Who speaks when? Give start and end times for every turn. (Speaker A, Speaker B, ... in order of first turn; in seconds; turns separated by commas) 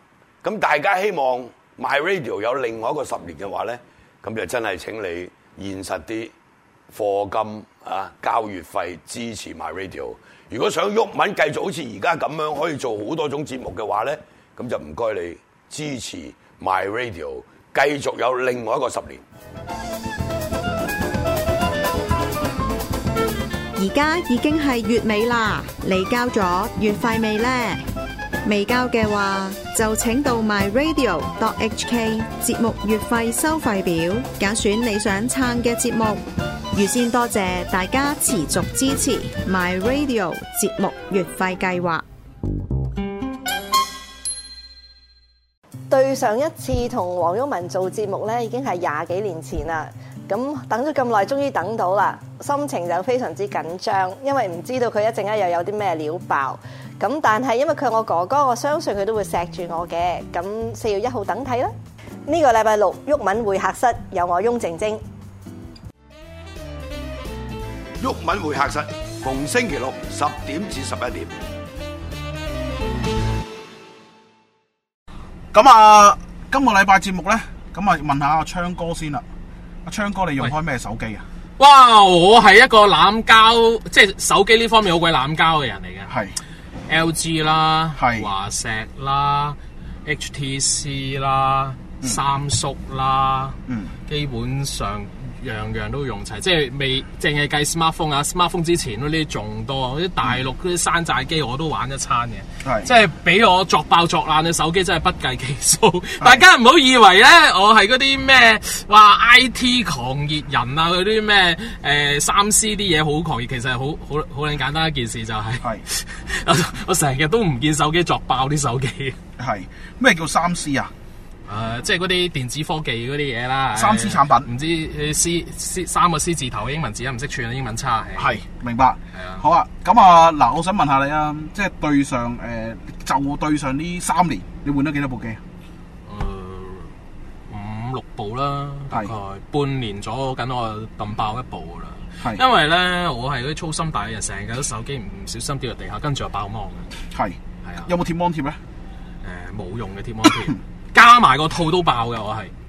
Speaker A: 0.4-6.3, Speaker A: 6.9-19.2, Speaker B: 23.8-27.8, Speaker B: 28.4-42.0, Speaker C: 45.9-61.7, Speaker C: 62.3-65.0, Speaker A: 68.0-71.3, Speaker D: 75.5-79.2, Speaker D: 79.8-81.2, Speaker E: 81.6-86.1, Speaker D: 86.1-86.4, Speaker E: 86.9-119.2, Speaker D: 88.0-88.3, Speaker D: 93.7-93.9, Speaker D: 102.6-102.9, Speaker D: 119.4-120.9, Speaker E: 121.5-128.4, Speaker D: 123.8-124.5, Speaker D: 128.2-135.4, Speaker E: 129.2-129.4, Speaker E: 136.1-136.9, Speaker E: 137.5-146.9, Speaker D: 147.1-148.6, Speaker E: 147.6-147.9, Speaker E: 149.2-152.5